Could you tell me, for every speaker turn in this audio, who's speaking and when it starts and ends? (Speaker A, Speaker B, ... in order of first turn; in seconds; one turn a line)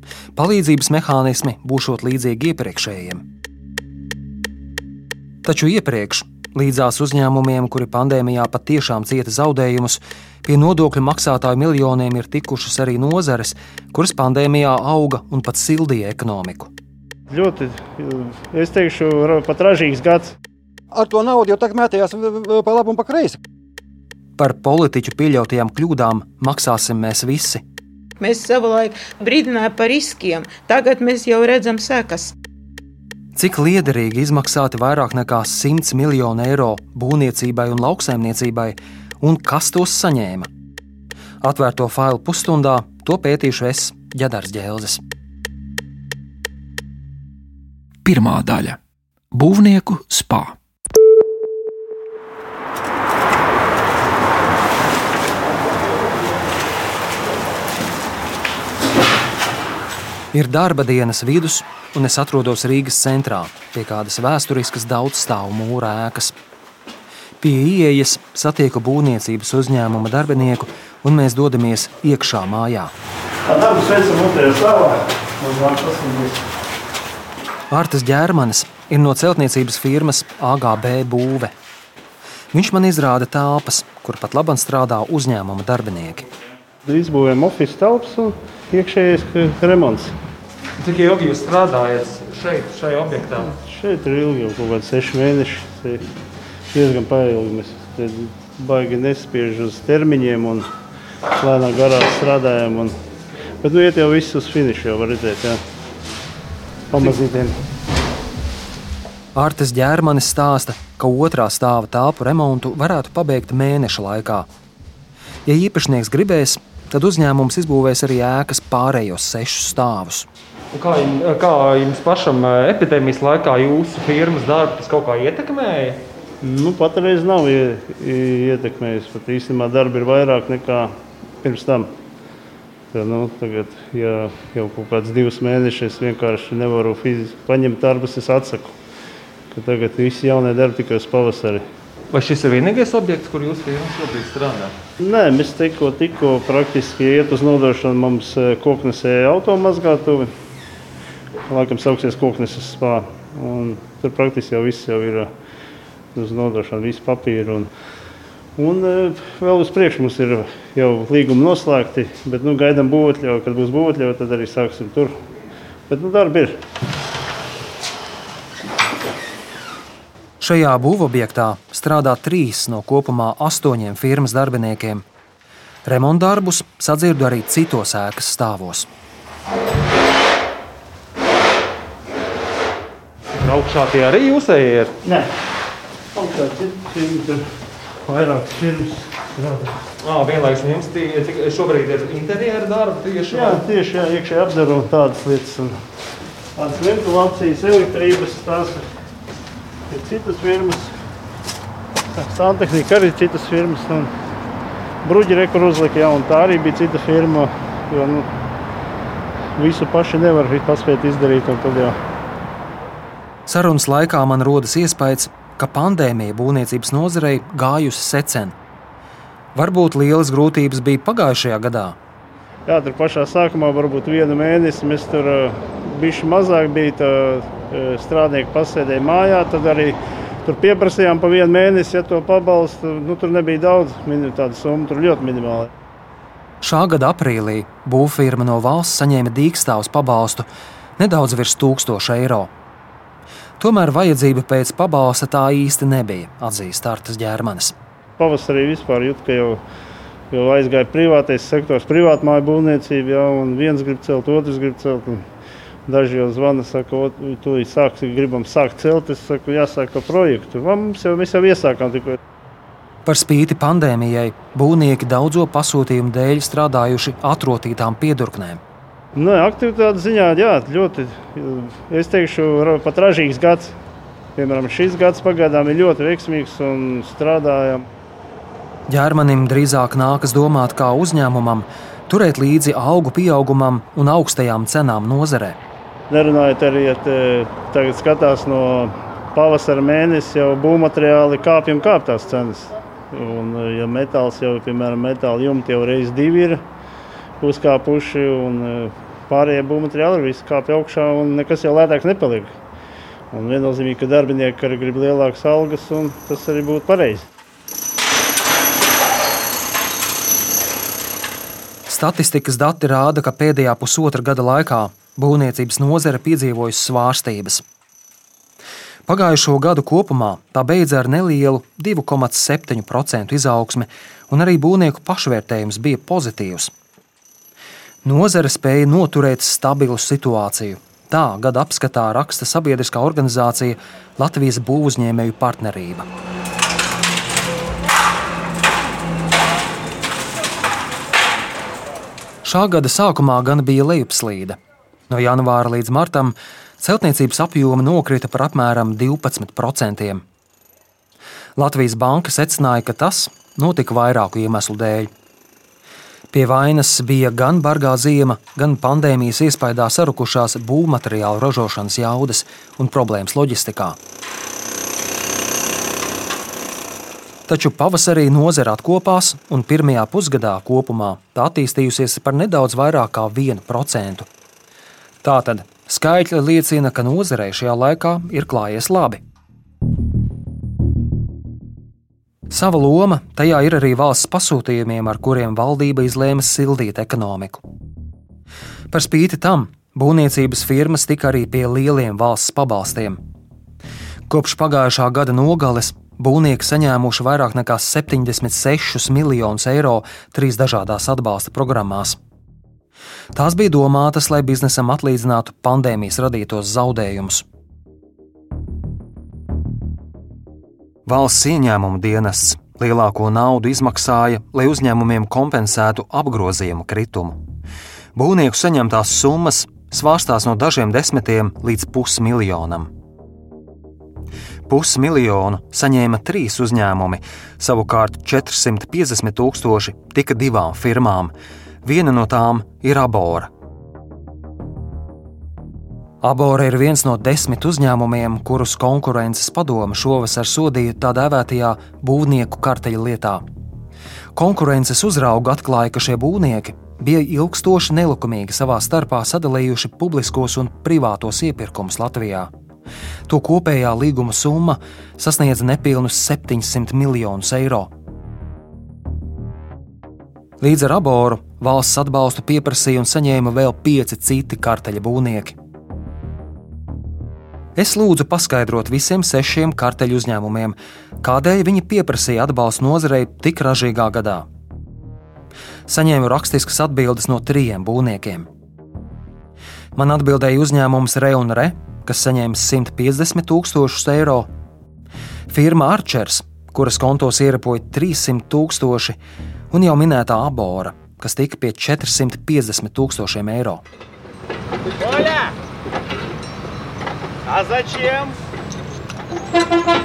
Speaker A: 0.3-3.2
Speaker A: 5.4-16.7
Speaker B: 17.3-20.3
Speaker C: 20.9-23.4
Speaker A: 24.4-27.6
Speaker D: 28.2-32.3
Speaker A: 33.4-40.5
Speaker A: 41.4-45.0
Speaker E: 48.0-48.8
Speaker E: 49.3-50.5
Speaker A: 60.3-66.3
Speaker A: 67.4-72.9
Speaker B: 73.5-76.4
Speaker A: 77.7-81.5
Speaker A: 82.5-86.2
Speaker B: 86.8-90.1
Speaker F: 90.8-93.5
Speaker B: 93.6-96.0
Speaker B: 96.7-100.7
Speaker B: 101.4-102.9
Speaker B: 103.6-105.6
Speaker B: 106.9-107.5
Speaker A: 109.3-114.5
Speaker A: 115.5-120.3
Speaker F: 120.7-126.0
Speaker B: 126.4-130.9
Speaker B: 131.4-131.9
Speaker B: 132.9-138.7
Speaker B: 139.5-141.6
Speaker F: 142.1-144.7
Speaker B: 145.0-150.3
Speaker B: 151.5-155.3
Speaker B: 156.1-157.7
Speaker B: 158.6-165.1
Speaker B: 165.9-166.6
Speaker A: 170.4-175.0
Speaker A: 175.8-178.9
Speaker F: 183.3-185.0
Speaker B: 185.0-185.3
Speaker B: 186.1-187.4
Speaker B: 188.0-189.7
Speaker F: 190.0-193.6
Speaker B: 193.3-195.7
Speaker B: 196.6-198.8
Speaker B: 199.9-200.9
Speaker B: 202.2-204.1
Speaker B: 205.0-208.2
Speaker B: 209.6-211.9
Speaker A: 213.5-218.5
Speaker A: 219.5-222.0
Speaker B: 222.7-235.7
Speaker A: 236.6-240.4
Speaker A: 241.0-242.5
Speaker A: 243.6-247.7
Speaker B: 248.2-249.6
Speaker B: 250.3-255.2
Speaker B: 255.8-262.2
Speaker A: 263.1-268.6
Speaker B: 269.1-273.7
Speaker B: 274.4-277.8
Speaker A: 278.9-285.6
Speaker B: 286.1-296.6
Speaker B: 297.4-302.5
Speaker B: 303.3-307.2
Speaker A: 311.9-317.6
Speaker A: 319.1-326.7
Speaker A: 328.0-336.1
Speaker A: 342.4-344.6
Speaker A: 345.1-350.2
Speaker A: 351.6-355.1
Speaker A: 356.3-364.0
Speaker A: 367.5-374.3
Speaker A: 375.2-379.2
Speaker A: 382.5-387.6
Speaker A: 388.9-393.2
Speaker A: 394.3-402.2
Speaker A: 403.3-407.4
Speaker A: 411.1-417.4
Speaker A: 418.1-422.9
Speaker A: 424.7-431.3
Speaker A: 431.8-433.5
Speaker A: 436.2-443.4
Speaker A: 444.3-452.5
Speaker A: 453.3-457.9
Speaker A: 460.6-465.6
Speaker A: 467.8-474.5
Speaker A: 475.9-478.5
Speaker A: 479.9-484.5
Speaker A: 485.5-489.1
Speaker A: 489.7-493.8